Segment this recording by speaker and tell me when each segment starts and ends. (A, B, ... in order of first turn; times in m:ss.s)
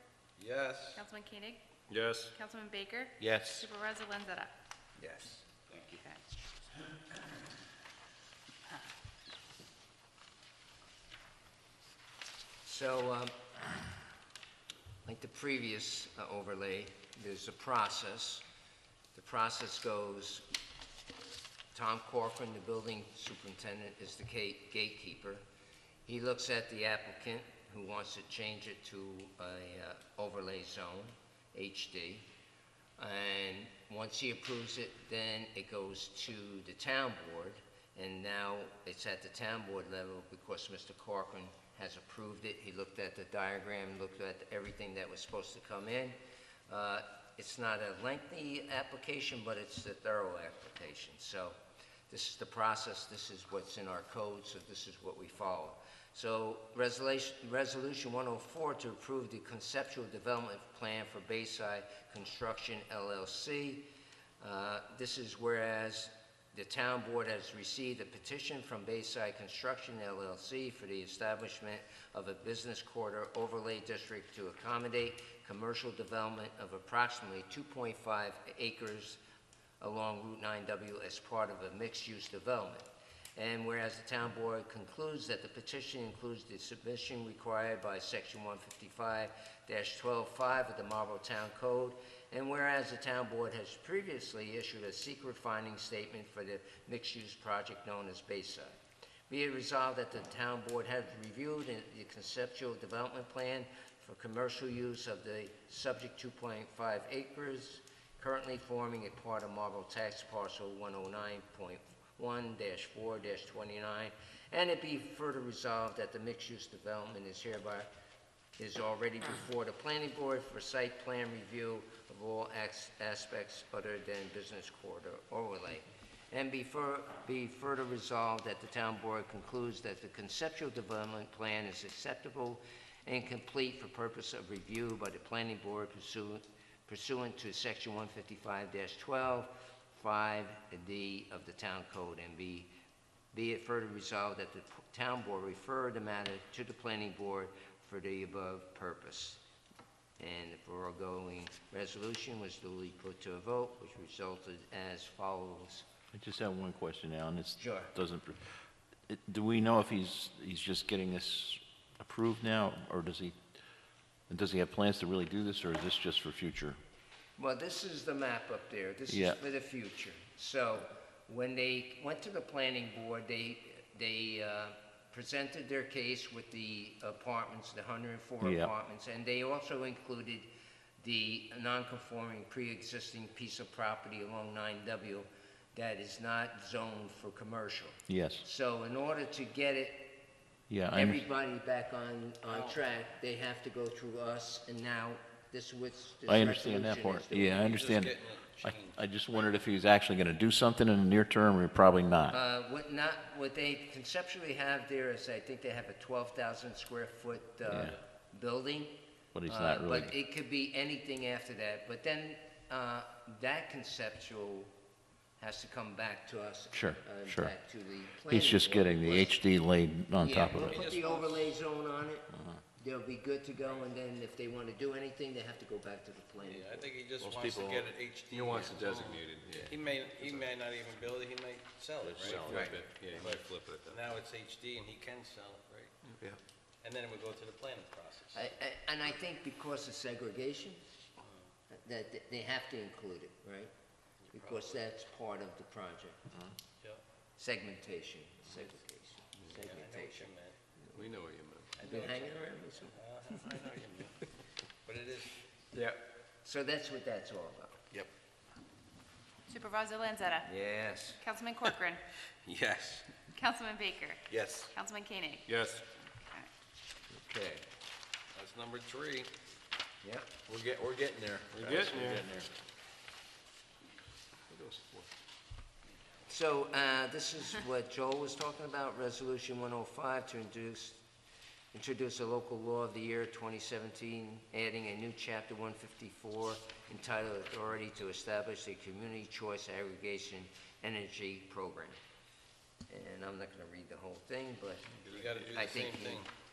0:00.4-0:01.0 A
0:01.0-0:01.6 B
0:01.9-0:02.3 C
0:02.3-0:04.5 B
0:03.2-0:03.7 D
0:05.0-0:05.4 E
0:05.7-0:06.2 B
0:12.6-0:13.5 E
0:15.0-0:18.4 E
0:19.1-0:20.5 E
0:21.7-0:25.4 E
0:26.0-0:32.3 E
0:33.0-0:46.2 E
0:46.7-0:51.6 E
0:52.1-1:03.9 E
1:04.4-1:19.2 E
1:19.8-1:38.8 E
1:39.3-1:57.9 E
1:58.6-2:22.7 E
2:23.3-2:29.4 E
2:30.2-2:35.8 E
2:36.1-2:43.4 D
2:37.6-2:37.9 E
2:44.3-2:46.8 D
2:47.4-3:00.5 E
2:49.1-2:49.4 D
2:58.4-2:58.7 D
3:01.0-3:10.2 E
3:08.1-3:08.4 D
3:10.7-3:11.2 D
3:10.9-3:17.8 E
3:12.5-3:12.8 A
3:16.3-3:22.4 D
3:17.6-3:19.0 A
3:22.3-3:34.7 E
3:27.7-3:28.0 D
3:29.3-3:30.1 D
3:35.4-3:39.4 E
3:36.7-3:37.5 D
3:38.3-3:40.8 D
3:40.2-3:46.9 E
3:40.6-3:41.5 A
3:46.4-3:56.0 A
3:47.2-3:47.8 D
3:48.3-3:49.8 C
3:52.0-3:52.8 D
3:52.2-3:54.0 C
3:52.5-3:53.3 E
3:56.8-3:58.4 A
3:58.3-4:00.8 E
4:01.2-4:01.5 A
4:01.7-4:03.7 E
4:04.2-4:04.8 A
4:04.3-4:06.2 E
4:07.4-4:10.3 E
4:09.4-4:10.6 A
4:11.0-4:11.8 C
4:11.8-4:13.0 E
4:11.8-4:12.3 A
4:12.9-4:14.2 A
4:14.8-4:15.4 A
4:15.7-4:17.8 E
4:19.5-4:20.5 B
4:20.4-4:21.2 E
4:21.2-4:22.0 B
4:22.4-4:23.1 A
4:23.3-4:25.5 B
4:25.5-4:25.8 C
4:26.1-4:26.5 B
4:27.2-4:27.6 E
4:28.3-4:29.3 A
4:30.0-4:30.3 E
4:30.5-4:32.5 D
4:31.6-4:32.2 C
4:31.7-4:32.2 A
4:36.3-4:41.0 E
4:41.7-4:52.0 E
4:52.9-4:56.2 E
4:55.1-4:56.3 A